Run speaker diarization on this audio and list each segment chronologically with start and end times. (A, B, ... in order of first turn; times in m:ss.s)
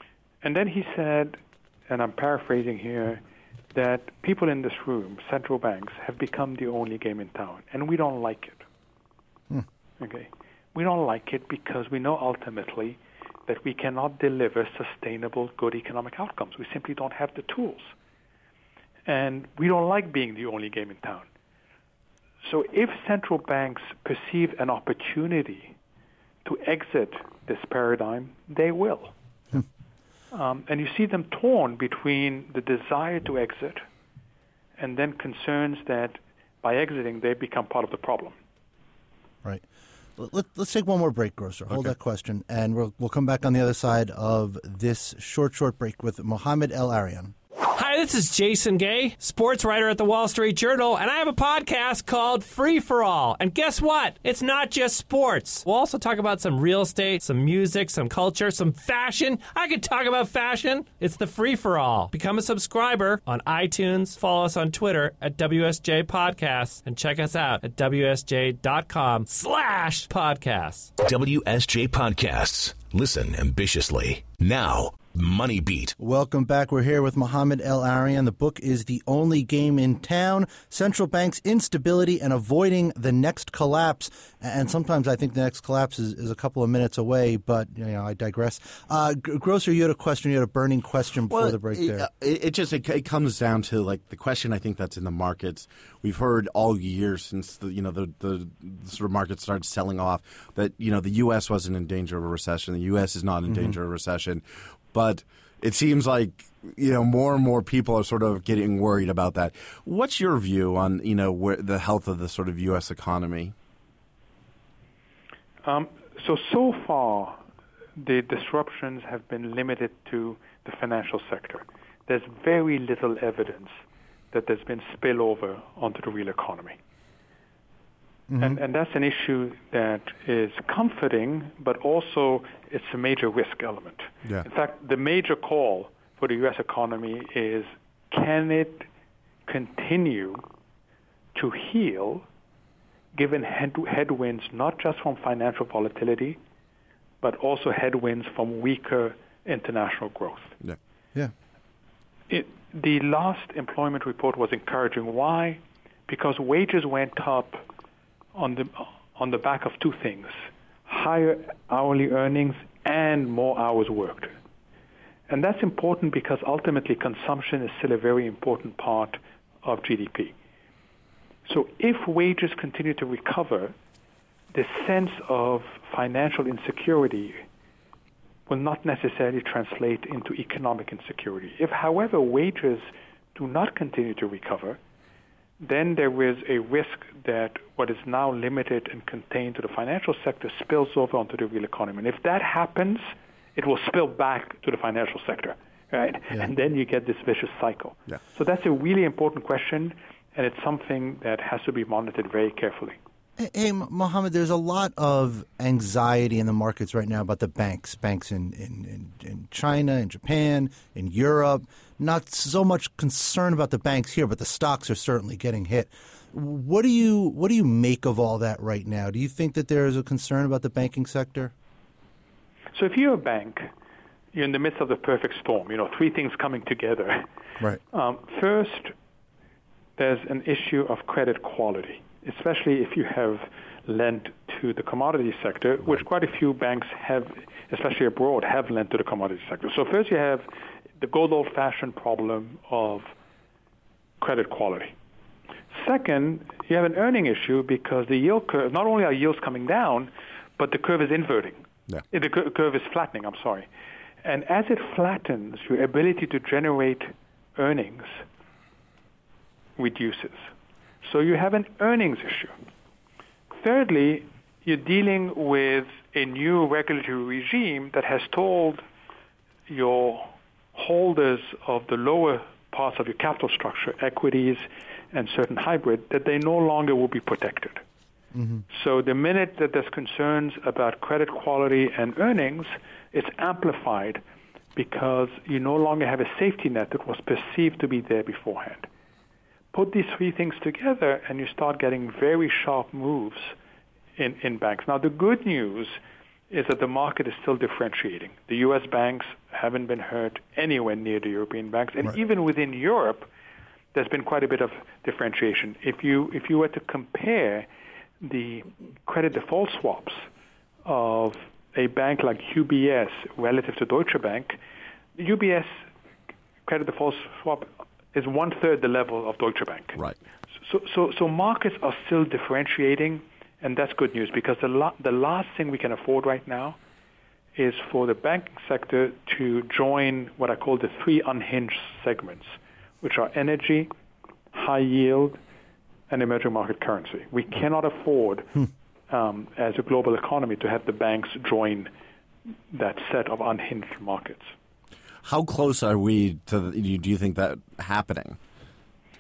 0:00.4-0:03.2 A
0:03.7-0:08.6 A
0:10.0-0:17.9 A
0:19.1-0:21.2 A
0:22.4-0:25.7 A
0:26.4-0:29.1 A
0:30.3-0:33.8 A
0:34.8-0:38.4 A
0:40.2-0:47.3 B
0:47.7-1:10.9 C
1:11.0-1:16.0 D
1:16.0-1:32.1 B
1:31.3-1:53.5 E
1:43.5-1:43.8 B
1:55.6-1:57.4 A
1:58.0-2:03.8 A
2:04.3-2:06.8 A
2:08.3-2:08.6 B
2:08.4-2:18.9 A
2:19.4-2:20.4 A
2:21.3-2:22.2 A
2:23.1-2:26.4 A
2:27.2-2:30.5 A
2:32.3-2:37.6 A
2:38.3-2:44.3 A
2:45.3-2:50.3 A
2:51.4-2:53.7 A
2:54.5-2:57.4 A
2:58.5-3:04.8 A
3:05.6-3:23.0 A
3:23.4-3:41.5 B
3:42.7-3:43.7 A
3:44.3-3:47.3 A
3:47.9-3:48.9 A
3:50.0-4:00.5 A
4:01.0-4:03.1 A
4:04.2-4:04.9 A
4:05.7-4:13.7 A
4:14.2-4:18.2 A
4:19.8-4:20.5 A
4:21.0-4:22.5 A
4:23.5-4:28.8 A
4:29.7-4:37.8 A
4:38.3-4:38.6 B
4:38.7-4:44.2 A
4:44.8-4:48.9 A
4:49.7-4:53.5 A
4:54.2-4:56.0 A
4:56.5-5:03.3 A
5:03.9-5:07.7 A
5:08.2-5:10.3 A
5:10.8-5:14.6 A
5:15.2-5:15.9 A
5:16.6-5:20.0 A
5:20.6-5:26.8 A
5:27.6-5:33.9 A
5:34.5-5:35.4 A
5:36.1-5:41.9 A
5:42.7-5:44.5 A
5:45.2-5:48.4 E